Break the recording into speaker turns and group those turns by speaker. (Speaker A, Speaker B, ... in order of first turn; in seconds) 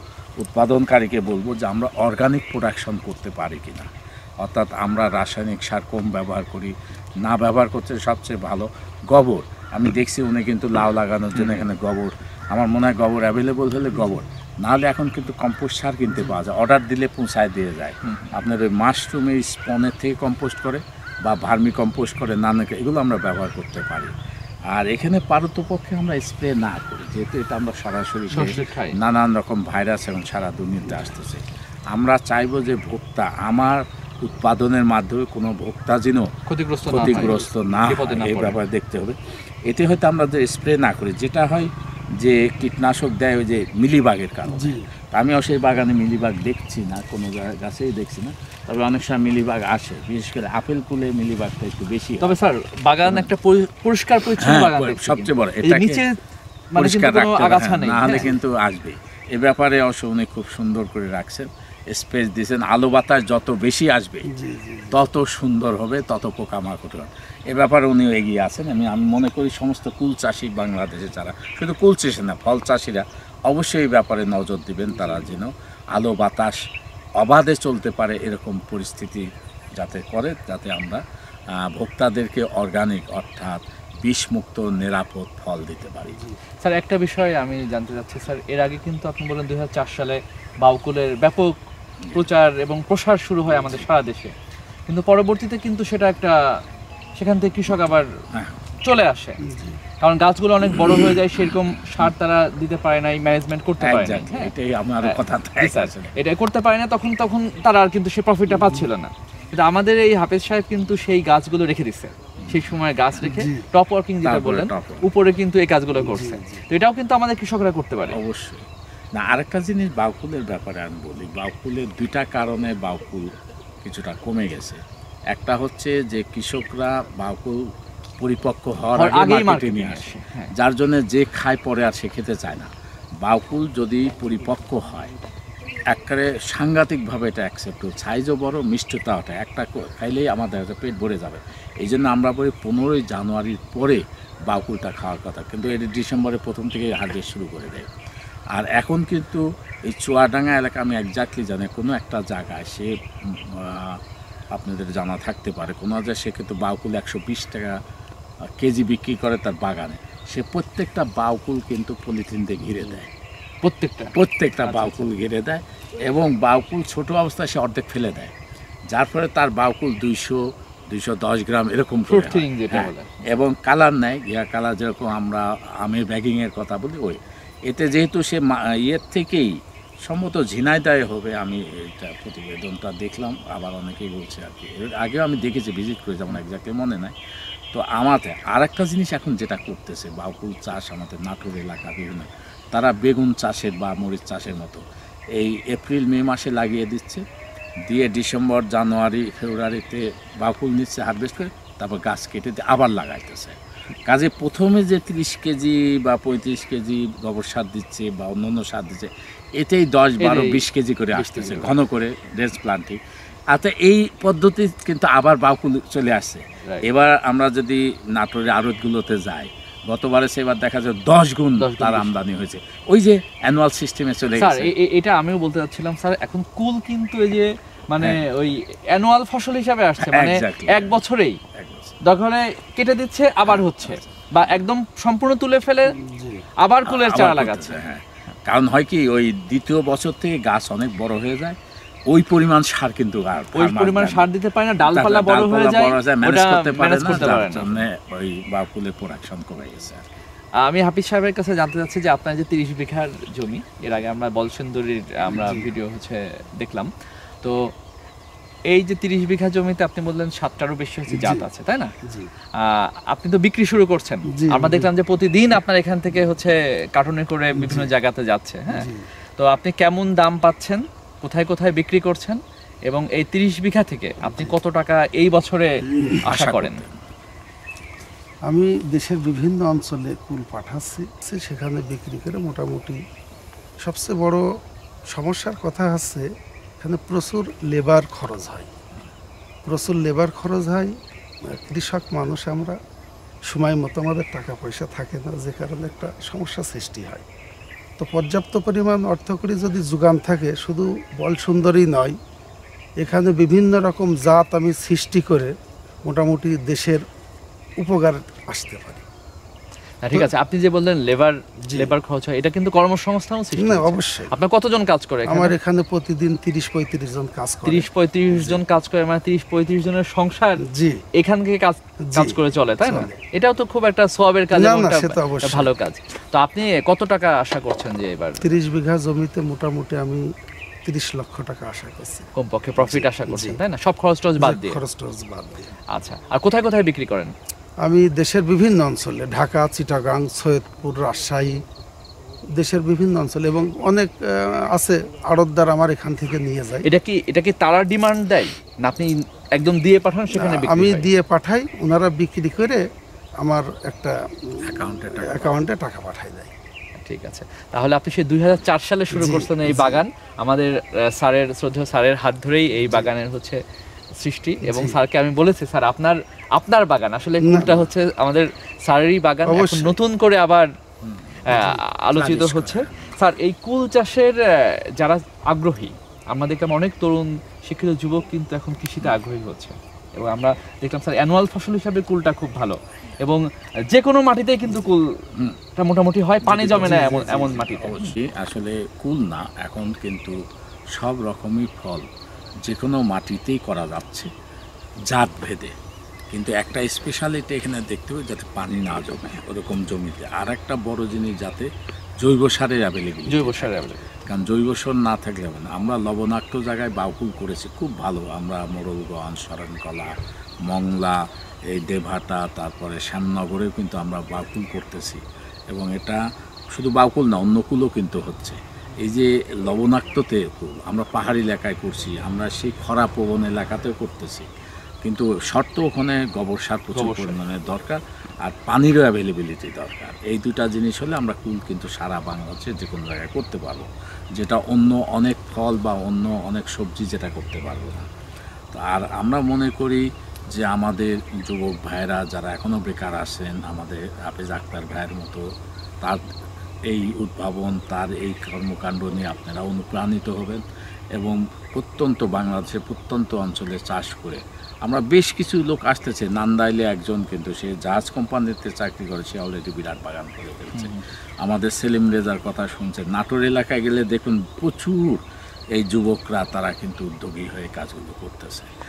Speaker A: 0.4-24.1, 24.7-36.3, 36.9-52.4, 53.0-53.3, 54.4-56.0, 56.8-64.3, 64.9-76.6, 77.2-86.2, 98.3-98.6, 103.8-106.2, 112.4-112.7, 114.2-115.1, 118.1-123.3, 123.8-127.6, 128.2-132.7, 133.2-135.1, 135.8-147.9, 148.5-154.0, 154.5-157.8, 158.6-163.1, 164.1-168.3, 168.9-187.2, 187.7-197.2, 197.8-224.7, 230.0-231.0, 231.5-232.0, 233.4-234.6, 236.8-244.3, 244.8-250.1, 276.2-277.0, 354.6-355.6, 371.0-371.4, 372.4-373.1, 385.3-385.6, 386.4-390.4, 390.9-392.1, 392.6-394.3, 395.1-395.7, 396.3-401.7, 402.2-410.1, 410.6-424.5, 425.0-438.1, 438.7-445.4, 446.9-465.2, 465.7-468.7
Speaker B: 11.3-11.6, 18.0-18.3, 28.3-29.0, 36.5-38.6, 52.2-56.1, 56.7-58.3, 86.6-91.6, 92.1-94.3, 94.9-96.4, 97.2-98.1, 98.8-99.4, 100.0-104.5, 105.0-118.2, 128.9-130.5, 163.6-165.0, 172.1-173.1, 210.2-211.7, 221.6-222.1, 224.3-231.4, 232.0-236.0, 236.6-237.8, 243.5-247.8, 250.6-256.9, 257.4-257.7, 258.7-261.9, 262.6-276.8, 310.0-315.5, 317.6-320.6, 321.1-328.4, 332.4-334.8, 335.9-337.3, 346.8-351.1, 357.0-363.6, 364.2-370.7, 371.5-385.2, 385.8-388.1, 403.3-404.1, 426.9-427.4, 460.7-461.0
Speaker C: 37.0-37.5, 44.5-44.9, 64.3-65.0, 99.4-99.8, 108.5-108.9, 113.2-113.7, 116.0-116.6, 236.0-236.5, 255.3-255.7, 261.1-261.5, 262.0-262.3, 264.3-264.9, 267.6-267.9, 268.7-269.0, 274.2-274.5, 275.9-276.2, 278.5-283.0, 283.8-284.5, 285.1-286.3, 286.8-288.7, 289.6-292.8, 293.4-297.2, 298.0-302.2, 303.0-307.0, 307.8-309.0, 311.6-311.9, 313.6-314.3, 315.3-318.6, 320.6-321.0, 322.1-323.1, 324.5-325.7, 328.4-330.3, 330.8-333.6, 334.4-335.7, 337.8-341.6, 342.5-346.9, 350.3-352.9, 353.4-356.5, 359.1-360.0, 364.6-365.0, 367.4-367.9, 369.5-369.9, 371.5-372.6, 386.6-387.6